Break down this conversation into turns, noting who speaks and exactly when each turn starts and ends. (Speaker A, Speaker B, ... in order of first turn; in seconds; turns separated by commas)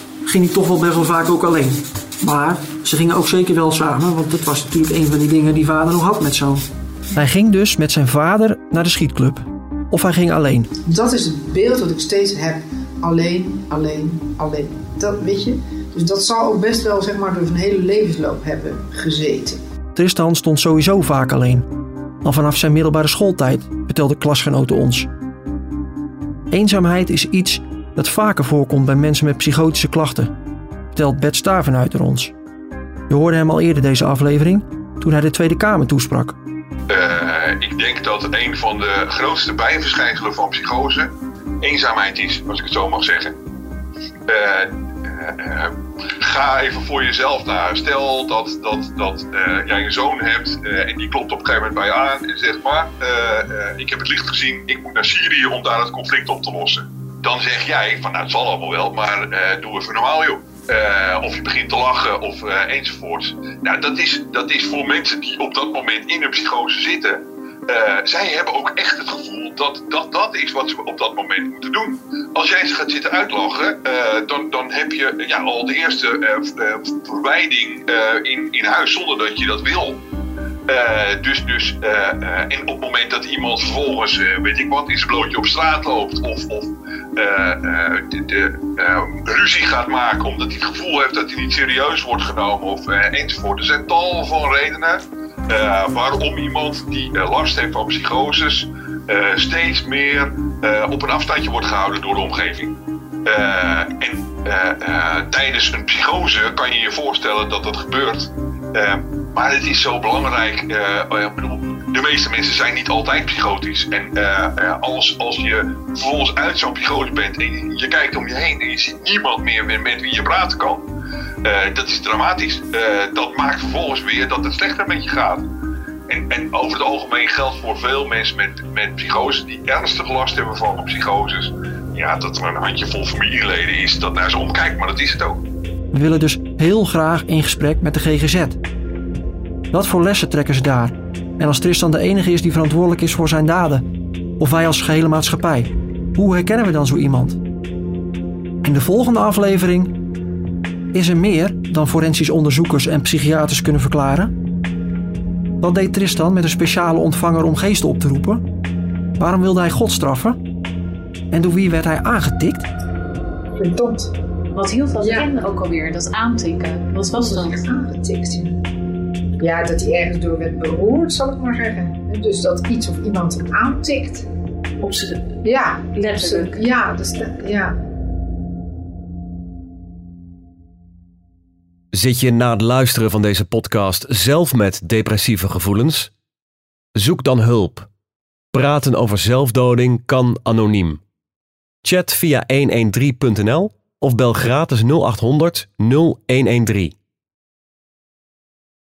Speaker A: 0.2-10.7, Speaker B: 10.9-19.6, Speaker A: 19.9-21.7, Speaker A: 22.2-25.1, Speaker A: 26.5-30.3, Speaker A: 30.9-32.3, Speaker A: 33.1-36.4, Speaker C: 36.9-43.4, Speaker C: 44.3-80.0, Speaker C: 80.7-120.8, Speaker C: 121.4-125.5, Speaker C: 126.1-135.4, Speaker A: 135.9-138.6, Speaker A: 139.7-143.9, Speaker A: 144.4-147.4, Speaker A: 148.6-149.9, Speaker A: 150.9-154.3, Speaker A: 155.6-158.4, Speaker A: 159.2-160.4, Speaker A: 161.3-162.7, Speaker B: 163.6-164.1, Speaker D: 164.5-167.6, Speaker B: 167.1-168.6, Speaker B: 169.4-174.3, Speaker D: 174.8-175.4, Speaker B: 175.4-177.8, Speaker D: 175.9-176.6, Speaker E: 181.9-186.1, Speaker E: 186.9-187.9, Speaker E: 188.5-191.0, Speaker E: 191.8-196.9